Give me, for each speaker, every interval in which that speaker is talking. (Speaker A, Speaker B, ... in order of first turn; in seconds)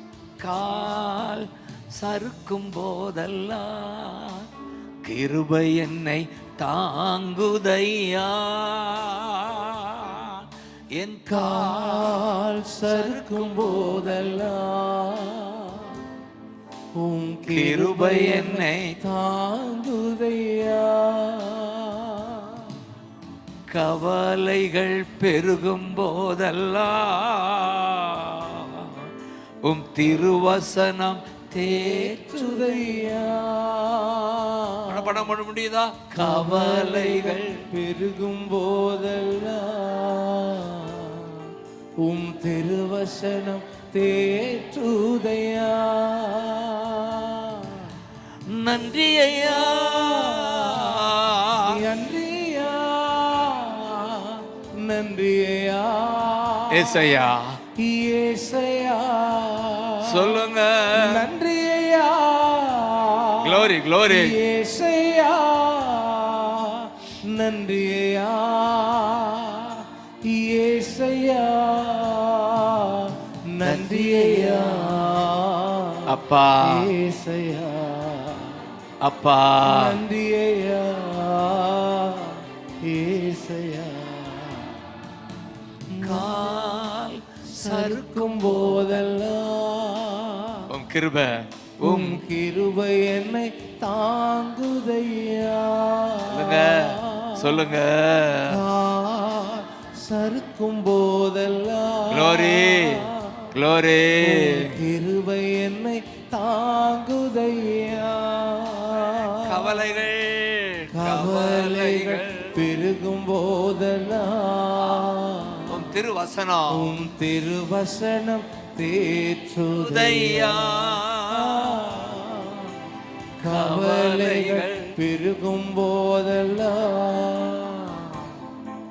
Speaker A: 0.4-4.5, 5.0-12.2, 12.8-14.3, 17.5-19.0, 23.7-29.1, 29.6-32.7, 34.9-37.6, 48.5-51.7, 56.7-57.6, 60.0-61.3, 63.4-64.3, 73.6-75.2, 76.1-76.9, 79.0-80.0, 86.0-89.0, 90.7-92.2, 96.3-98.6, 102.1-104.8, 109.4-112.5, 114.8-115.1, 115.7-117.0, 119.7-122.1, 123.4-124.9
Speaker B: 11.3-16.0, 16.9-22.8, 31.6-35.2, 36.1-41.5, 42.0-48.0, 49.4-51.0, 51.6-57.1, 57.8-60.4, 60.9-78.7, 79.6-84.8, 86.0-86.7, 87.5-90.7, 91.8-97.7, 98.5-103.5, 104.2-109.8, 110.9-115.9, 116.7-122.7, 123.4-128.3